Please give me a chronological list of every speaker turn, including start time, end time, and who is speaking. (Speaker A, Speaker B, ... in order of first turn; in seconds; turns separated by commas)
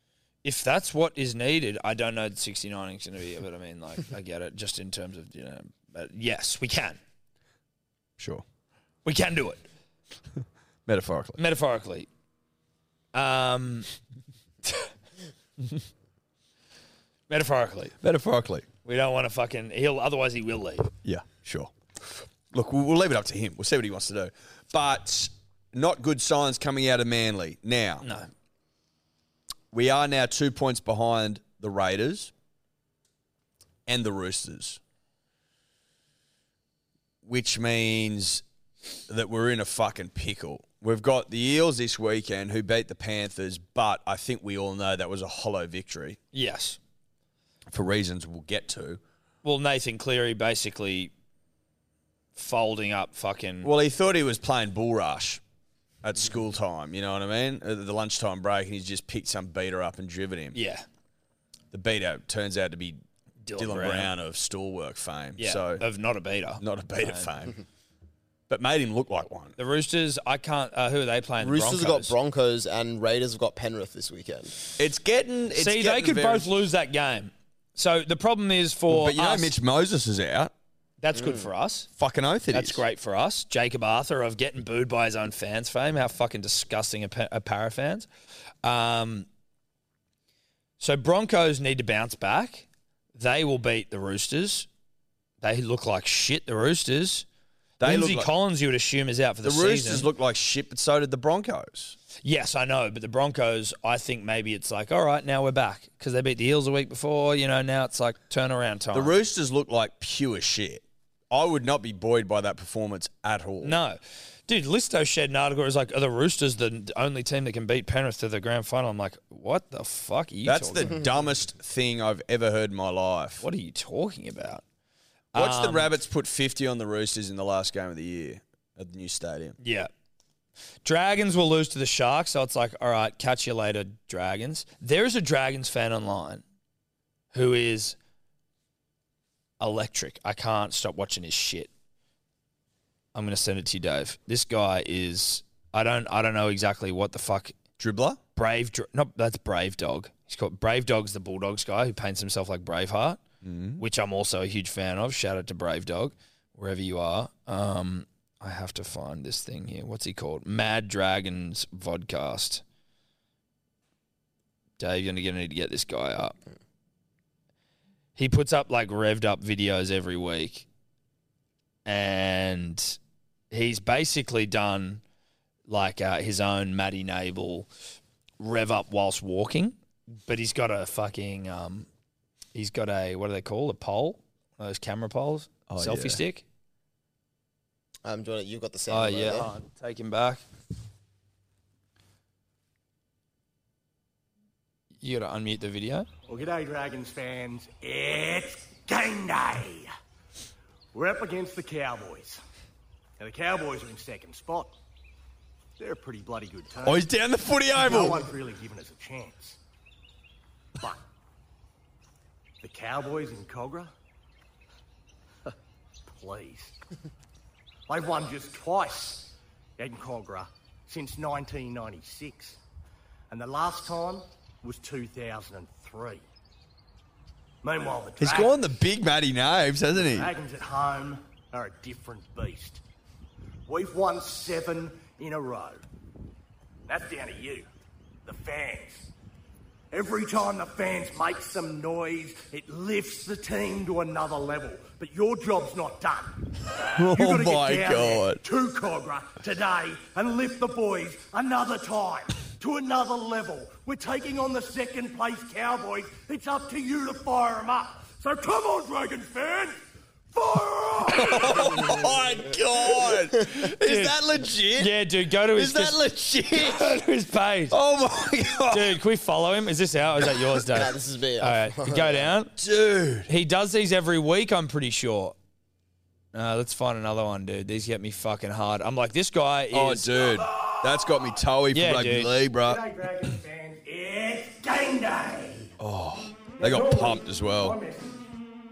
Speaker A: 0.4-7.0, Speaker B: 8.2-8.4, Speaker A: 9.0-9.6, Speaker B: 10.8-11.4, Speaker A: 11.4-12.1, Speaker A: 13.1-13.9, Speaker A: 17.3-17.9, Speaker B: 18.0-18.7, Speaker A: 18.8-20.9, Speaker B: 21.0-28.0, Speaker A: 28.0-28.3, Speaker B: 29.7-32.3, Speaker B: 33.9-34.8, Speaker B: 37.2-38.4, Speaker B: 39.1-46.2, Speaker A: 46.3-46.8, Speaker B: 47.7-49.0, Speaker A: 49.4-51.1, Speaker A: 52.4-53.7, Speaker B: 53.6-55.4, Speaker B: 56.0-60.6, Speaker A: 60.5-60.8, Speaker B: 61.7-63.0, Speaker A: 63.4-64.1, Speaker B: 63.5-65.8, Speaker A: 65.4-67.3, Speaker B: 66.6-67.6, Speaker B: 68.5-69.5, Speaker A: 69.6-72.1, Speaker C: 71.4-74.6, Speaker B: 74.8-76.5, Speaker A: 75.5-79.5, Speaker B: 78.9-80.5, Speaker A: 81.0-81.9, Speaker B: 82.0-82.8, Speaker A: 82.5-88.1, Speaker A: 88.6-89.3, Speaker A: 90.8-94.7, Speaker A: 95.4-97.2, Speaker B: 97.8-98.3, Speaker A: 97.8-100.1, Speaker B: 99.4-102.0, Speaker A: 102.2-109.1, Speaker B: 108.9-113.8, Speaker A: 113.6-121.0, Speaker B: 120.4-123.5, Speaker A: 123.4-124.6, Speaker A: 125.3-125.9, Speaker B: 125.3-129.6, Speaker A: 129.6-129.9, Speaker A: 130.8-136.4, Speaker A: 137.3-137.9, Speaker A: 139.6-141.7, Speaker A: 143.1-147.5, Speaker B: 147.8-148.2, Speaker A: 148.3-153.2, Speaker B: 153.4-153.8, Speaker A: 153.8-162.6, Speaker A: 164.8-166.3, Speaker A: 168.2-170.7, Speaker A: 171.8-173.0, Speaker A: 173.5-175.0, Speaker A: 175.7-177.7, Speaker A: 178.4-179.7, Speaker A: 180.2-181.9, Speaker A: 182.5-186.4, Speaker B: 185.7-186.2, Speaker C: 188.0-189.5, Speaker A: 188.9-190.4, Speaker A: 195.0-196.1, Speaker D: 196.3-199.9, Speaker D: 200.9-202.4, Speaker D: 203.2-204.7, Speaker D: 205.8-207.1, Speaker B: 206.8-208.3, Speaker D: 207.8-209.6, Speaker D: 212.6-213.9, Speaker D: 216.1-216.8, Speaker D: 217.9-222.6, Speaker D: 223.3-226.2, Speaker D: 227.6-228.6, Speaker B: 228.2-230.3, Speaker D: 230.0-232.8, Speaker D: 233.7-235.8, Speaker D: 236.9-237.7, Speaker D: 238.2-239.1, Speaker D: 239.9-246.4, Speaker B: 246.9-248.4, Speaker D: 247.0-259.8, Speaker D: 260.3-261.8, Speaker B: 261.1-264.9, Speaker A: 263.8-264.2, Speaker A: 264.8-266.0, Speaker B: 265.5-266.9, Speaker A: 266.6-267.8, Speaker B: 267.7-269.0, Speaker A: 268.7-272.5, Speaker C: 270.7-272.3, Speaker B: 272.6-273.3, Speaker A: 273.3-275.4, Speaker A: 276.3-280.1, Speaker B: 279.7-282.8, Speaker D: 280.2-281.3, Speaker A: 281.7-282.3, Speaker D: 282.6-285.7, Speaker B: 285.8-287.8, Speaker D: 286.6-288.2